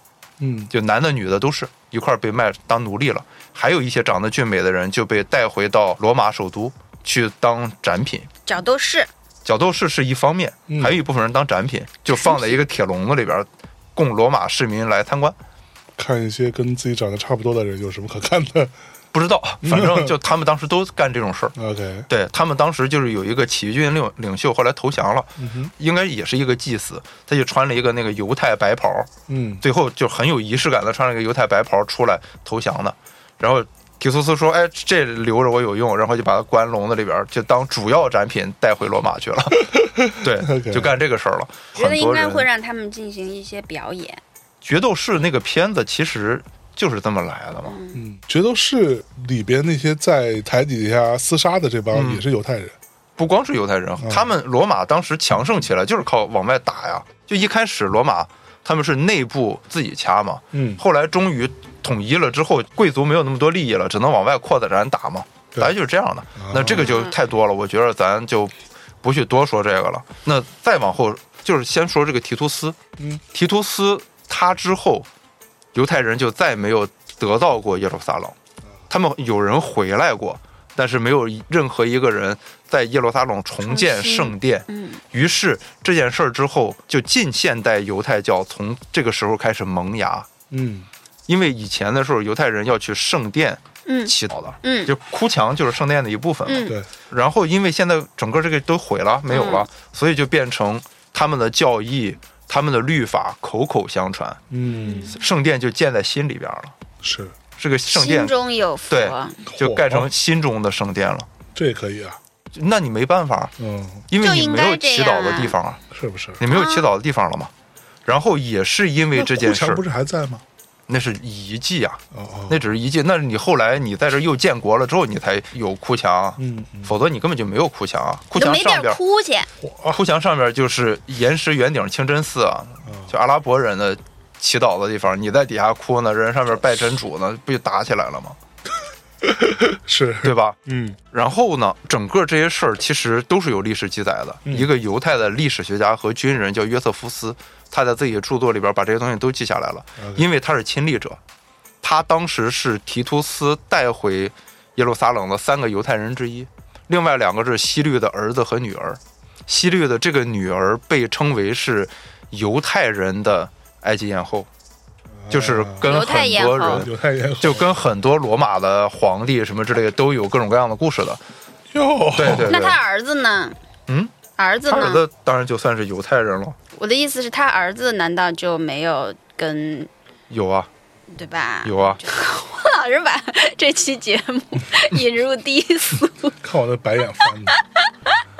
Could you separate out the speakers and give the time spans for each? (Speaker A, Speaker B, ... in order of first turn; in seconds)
Speaker A: 0.4-0.7, 10.7-10.9, 16.0-18.7, 19.6-20.1, 21.6-22.1, 25.4-25.7, 29.3-29.6, 39.6-41.0, 47.9-52.8, 54.0-54.3, 60.5-60.8, 66.3-66.9, 90.5-90.9, 104.5-105.1, 107.0-107.3, 109.5-110.1, 111.5-112.2, 113.6-114.1, 115.9-116.4, 119.1-120.4, 122.1-122.6, 126.4-126.9, 129.6-130.0, 132.8-133.1, 139.2-141.0, 150.0-150.2, 165.2-165.9, 166.6-167.7, 171.7-172.5, 186.4-187.6
Speaker B: 0.7-8.3, 9.4-15.4, 19.1-21.5, 22.1-29.1, 29.6-42.4, 44.6-47.7, 51.9-52.2, 53.2-72.8, 73.3-75.1, 75.7-78.3, 78.9-90.3, 91.3-104.4, 105.1-106.7, 107.6-108.3, 108.9-111.3, 112.5-113.5, 114.1-115.8, 116.4-117.5, 118.0-119.8, 120.9-129.0, 129.9-138.4, 140.2-140.6, 141.1-151.2, 151.8-164.5, 165.3-171.2, 172.1-172.8, 173.9-174.1, 174.7-176.6, 180.3-180.7, 181.6-182.0
Speaker C: 8.4-9.1, 12.2-12.5, 41.8-44.2, 47.6-48.0, 66.7-67.1, 83.6-85.0, 93.8-94.9, 96.5-96.7, 99.3-99.7, 104.8-105.1, 107.9-109.4, 114.2-115.5, 116.5-116.9, 128.3-129.5, 165.8-166.8, 172.4-173.6, 174.4-175.0, 176.7-179.9, 181.1-186.4, 187.2-188.2